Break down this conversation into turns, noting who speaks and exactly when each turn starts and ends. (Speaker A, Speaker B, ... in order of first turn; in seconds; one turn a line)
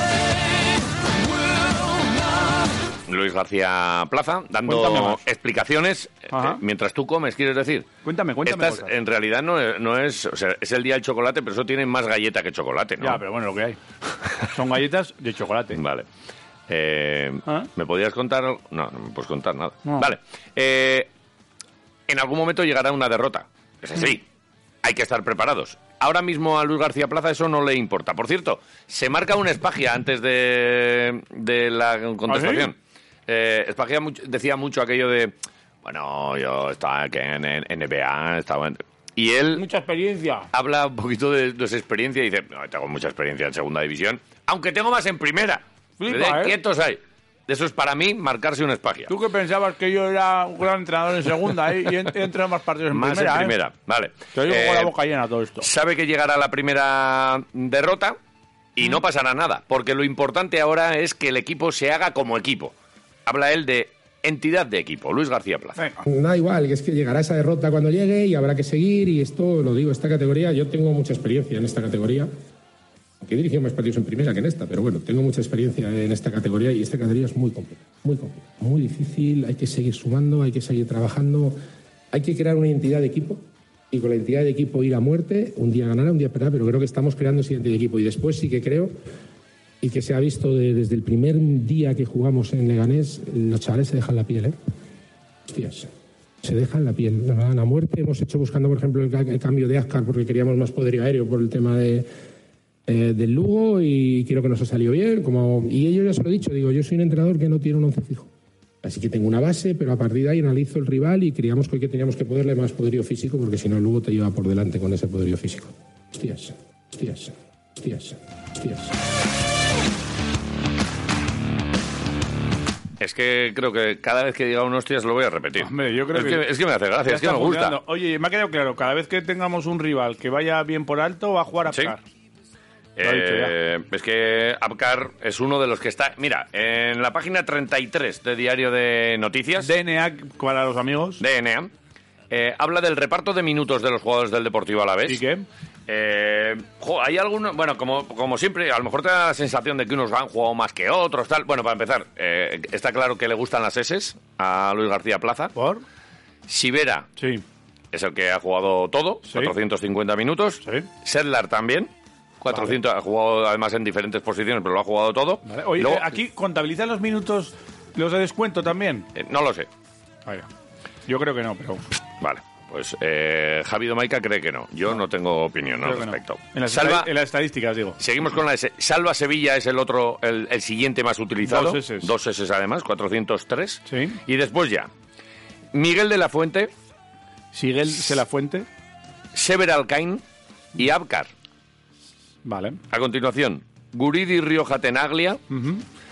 Speaker A: 3.1-7.8
Speaker B: 4.7-5.2
Speaker B: 6.3-6.6
Speaker B: 8.0-8.9
Speaker A: 8.4-13.2
Speaker B: 13.0-13.8
Speaker B: 14.4-15.8
Speaker A: 15.7-16.1
Speaker A: 16.7-21.1
Speaker B: 19.8-20.1
Speaker A: 22.1-24.2
Speaker A: 24.8-32.8
Speaker B: 32.3-32.7
Speaker A: 33.3-39.6
Speaker B: 39.5-40.5
Speaker A: 40.5-49.1
Speaker B: 46.0-46.6
Speaker B: 49.1-53.5
Speaker A: 52.9-54.9
Speaker B: 54.3-55.7
Speaker A: 55.6-58.2
Speaker A: 58.8-62.7
Speaker A: 63.2-65.8
Speaker B: 65.8-66.0
Speaker C: 66.0-72.3
Speaker C: 73.2-81.5
Speaker C: 82.1-88.9
Speaker C: 89.8-94.5
Speaker C: 95.5-95.9
Speaker C: 96.4-102.1
Speaker C: 102.9-108.3
Speaker C: 108.8-118.9
Speaker A: 123.0-127.8
Speaker B: 125.6-126.4
Speaker B: 127.0-132.0
Speaker A: 131.7-131.9
Speaker A: 133.0-139.7
Speaker B: 133.0-133.5
Speaker B: 139.6-141.2
Speaker A: 141.2-141.7
Speaker A: 142.3-145.2
Speaker B: 145.1-145.4
Speaker A: 145.9-155.5
Speaker B: 155.5-155.8
Speaker A: 156.5-157.1
Speaker B: 157.2-157.4
Speaker A: 157.9-166.1
Speaker B: 159.2-159.5
Speaker B: 160.6-160.9
Speaker B: 165.4-169.1
Speaker A: 169.1-169.7
Speaker B: 171.1-171.8
Speaker A: 172.2-177.1
Speaker B: 175.8-178.0
Speaker A: 178.0-184.9
Speaker B: 181.4-182.1
Speaker B: 183.9-184.2
Speaker A: 185.7-186.7
Speaker B: 187.5-188.7
Speaker A: 189.3-190.2
Speaker A: 190.7-191.3
Speaker B: 192.4-192.8
Speaker A: 192.9-195.4
Speaker B: 195.5-195.8